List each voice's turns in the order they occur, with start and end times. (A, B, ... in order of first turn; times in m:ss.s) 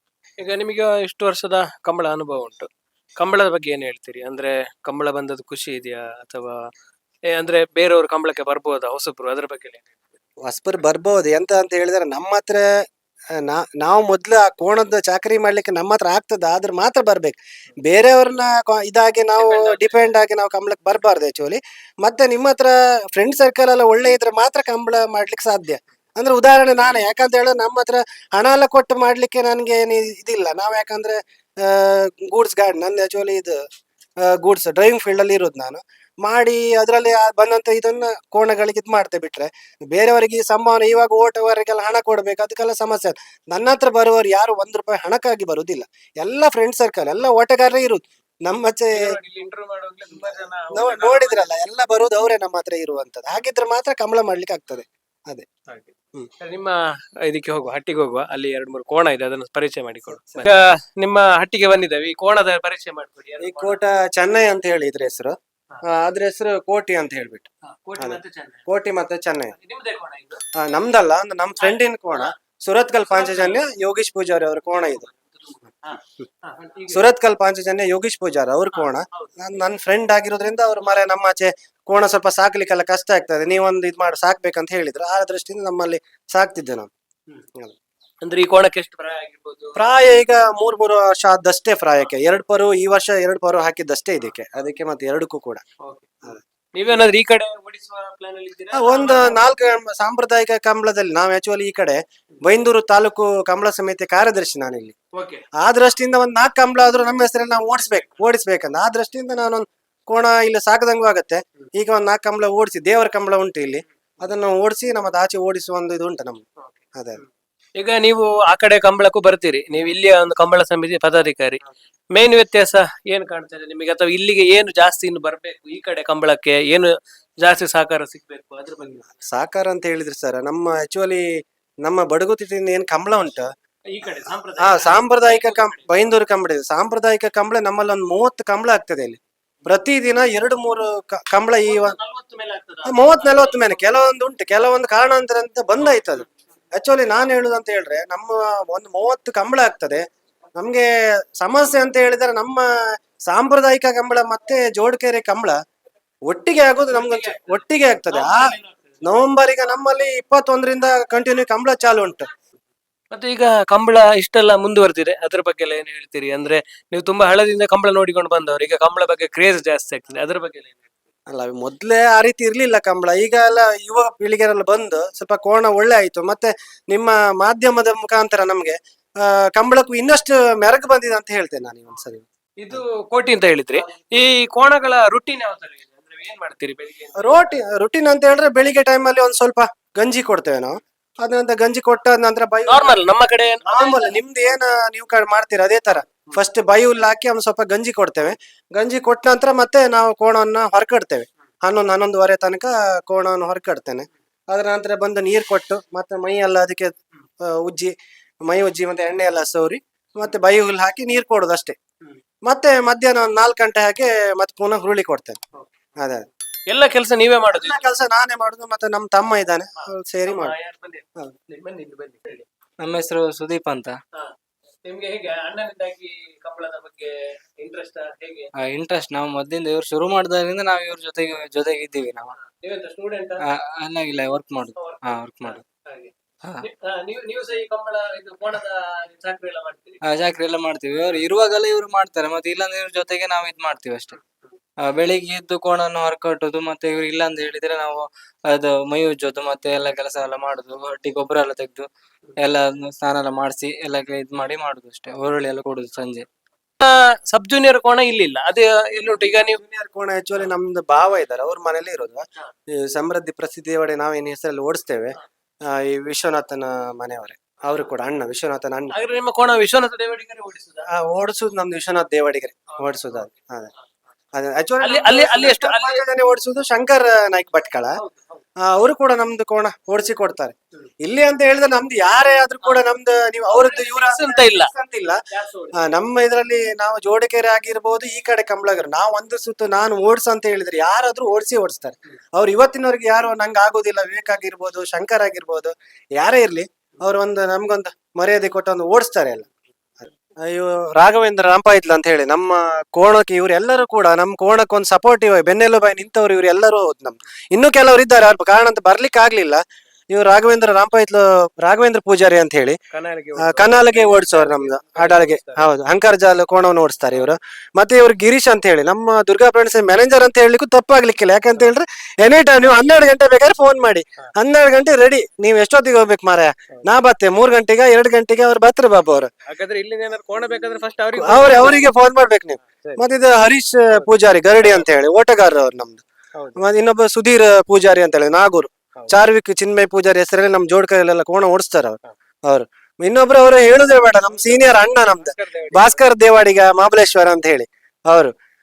0:00.4-0:06.7 A
0:07.3-0:09.8 A
0:10.4-0:12.6 B
0:13.4-0:33.6 B
0:19.4-0:20.0 A
0:34.2-0:49.2 B
0:48.9-0:51.5 A
0:50.7-0:55.4 B
0:55.7-1:03.8 A
1:00.1-1:00.5 B
1:03.4-1:09.5 B
1:07.8-1:08.6 A
1:09.5-1:10.4 A
1:10.5-1:15.1 B
1:11.6-1:12.3 A
1:13.1-1:13.6 A
1:15.1-1:17.1 A
1:16.9-1:26.9 B
1:18.7-1:19.3 A
1:28.2-1:29.8 A
1:29.8-1:35.6 B
1:35.8-1:36.2 A
1:36.7-1:39.4 A
1:38.7-1:44.9 B
1:45.1-1:45.4 A
1:45.6-1:56.4 B
1:57.0-1:57.2 B
1:57.8-2:01.6 A
2:02.1-2:09.2 A
2:09.2-2:11.2 B
2:11.8-2:13.5 B
2:13.9-2:15.9 A
2:14.6-2:22.0 B
2:21.7-2:23.8 A
2:22.8-2:30.0 B
2:30.6-2:30.9 B
2:31.4-2:32.7 B
2:33.3-2:35.6 B
2:36.3-2:42.3 B
2:36.9-2:38.8 A
2:43.1-2:50.8 A
2:51.3-3:02.8 B
3:02.6-3:07.6 A
3:07.1-3:12.9 B
3:12.7-3:14.2 A
3:13.6-3:27.9 B
3:28.5-3:31.8 B
3:32.4-3:35.4 B
3:36.0-3:36.2 B
3:36.7-3:37.8 A
3:37.5-3:40.5 B
3:40.2-3:42.4 A
3:42.8-3:44.0 C
3:44.8-3:48.5 A
3:48.5-3:52.4 C
3:52.5-3:53.4 A
3:53.4-3:55.6 C
3:54.8-4:00.0 A
4:00.0-4:04.2 C
4:04.8-4:16.2 C
4:16.8-4:19.6 A
4:19.5-4:28.9 B
4:28.9-4:30.8 A
4:30.9-4:33.7 B
4:32.8-4:33.3 A
4:34.3-4:38.0 B
4:34.8-4:36.0 A
4:38.0-4:38.4 A
4:38.6-4:45.2 B
4:42.6-4:42.9 A
4:43.5-4:44.7 A
4:45.3-4:45.9 A
4:45.7-4:59.5 B
5:00.0-5:12.8 B
5:12.9-5:15.6 A
5:13.4-5:29.3 B
5:29.5-5:31.8 A
5:31.2-5:36.0 B
5:32.7-5:33.0 A
5:33.9-5:34.8 A
5:36.6-5:48.3 B
5:44.3-5:46.0 A